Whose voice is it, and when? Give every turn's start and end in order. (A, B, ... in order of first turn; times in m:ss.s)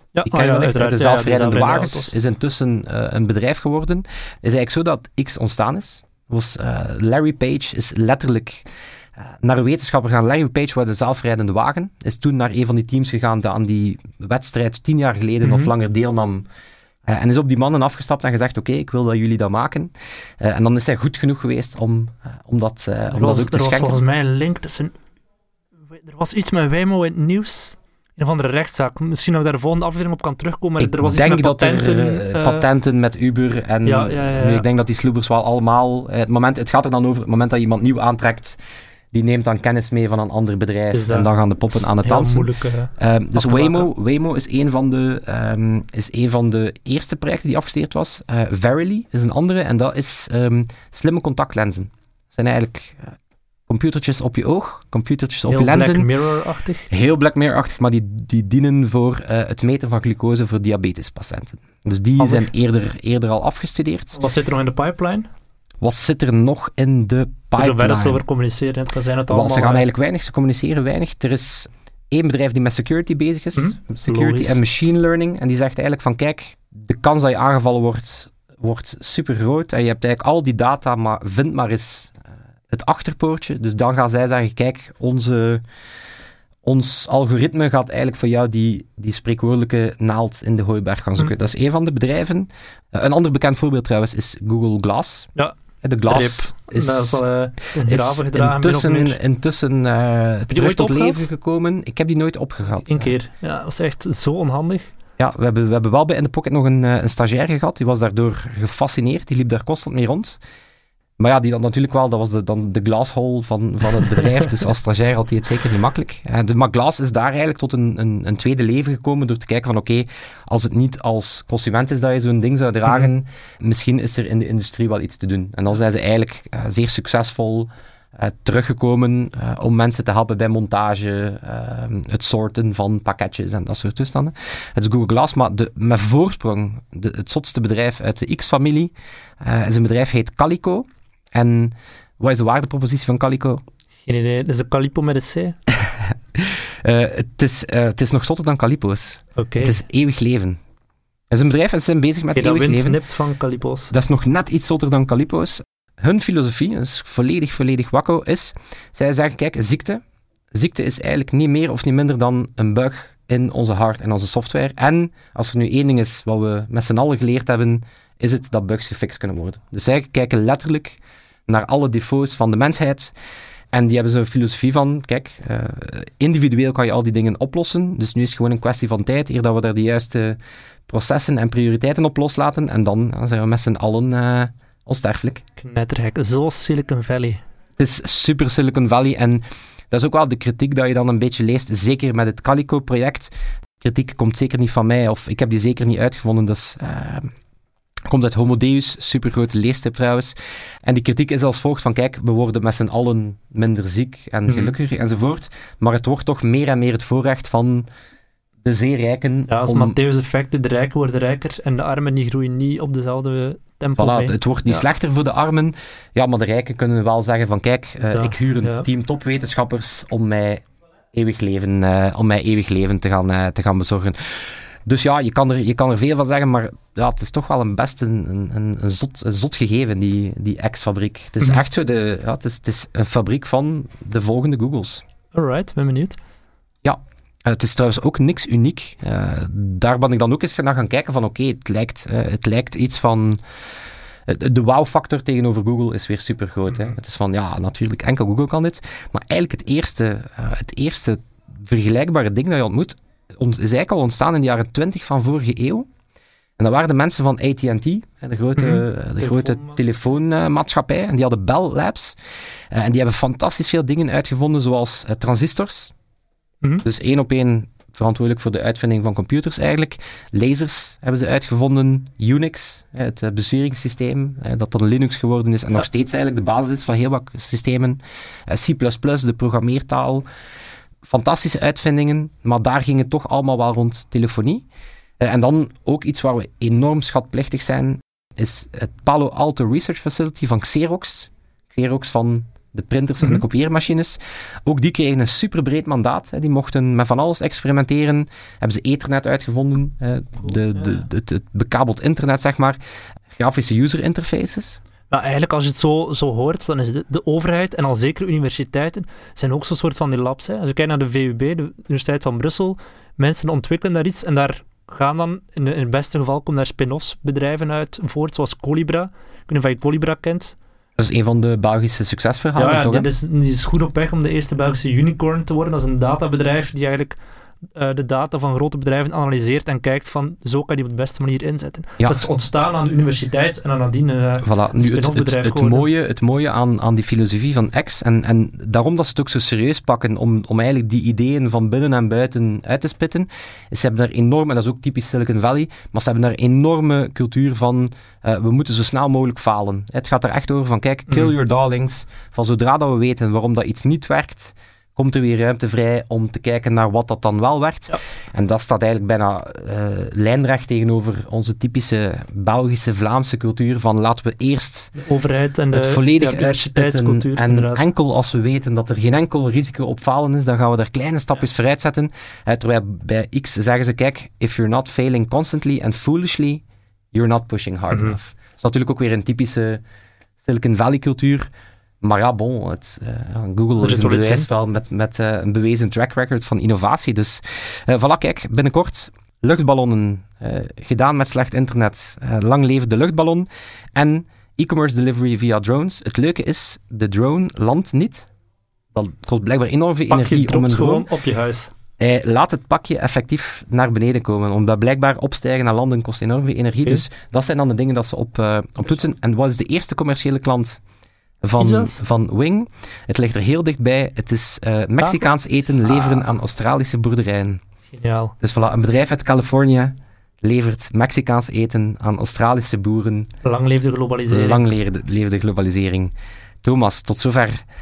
0:00.2-0:02.1 A
0:00.2-0:08.7 B
0:09.2-0:16.4 B
0:15.4-0:15.7 A
0:17.1-0:24.0 B
0:23.1-0:24.9 A
0:25.9-0:32.7 A
0:30.8-0:38.6 B
0:33.8-0:34.6 A
0:39.1-0:53.2 B
0:40.9-0:43.9 A
0:53.7-0:56.1 B
0:55.5-0:56.9 A
0:56.9-1:04.2 B
1:02.2-1:02.5 A
1:04.1-1:05.3 A
1:05.8-1:08.2 B
1:07.6-1:09.9 A
1:09.3-1:25.6 B
1:13.6-1:14.6 A
1:26.6-1:35.3 B
1:35.4-1:39.2 A
1:35.8-1:37.2 B
1:37.8-1:43.2 B
1:40.5-1:41.3 A
1:42.8-1:44.9 A
1:45.2-1:50.4 B
1:51.2-2:23.6 B
2:24.1-2:25.6 A
2:25.7-2:30.6 B
2:29.4-2:29.8 A
2:31.3-2:33.0 B
2:32.3-2:33.9 A
2:33.9-2:53.1 B
2:53.7-3:05.4 B
3:05.6-3:07.4 A
3:07.8-3:17.3 B
3:18.1-3:27.9 B
3:24.5-3:24.8 A
3:28.6-3:30.0 B
3:29.5-3:34.8 A
3:34.0-3:55.0 B
3:38.0-3:38.8 A
3:55.3-3:56.2 A
3:56.8-4:03.4 B
4:04.3-4:15.9 B
4:16.6-4:22.2 B
4:18.6-4:19.8 A
4:22.7-4:25.9 B
4:26.8-4:40.3 B
4:41.0-4:44.7 B
4:45.2-5:02.8 B
5:00.4-5:01.0 A
5:03.3-5:04.8 B
5:05.1-5:20.6 A
5:21.0-5:23.1 B
5:22.6-5:27.2 A
5:27.8-5:35.9 A
5:34.4-6:05.0 B
6:05.0-6:07.9 A
6:05.7-6:16.6 B
6:17.1-6:19.8 B
6:17.9-6:18.2 A
6:20.4-6:21.5 B
6:22.0-6:38.3 B
6:23.8-6:24.5 A
6:38.9-6:41.1 B
6:40.1-6:41.7 A
6:42.0-6:50.8 B
6:51.4-6:57.6 B
6:51.6-6:52.0 A
6:55.0-6:55.3 A
6:55.8-6:56.3 A
6:57.9-6:58.3 A
6:58.4-7:03.3 B
7:03.4-7:04.6 A
7:04.3-7:07.6 B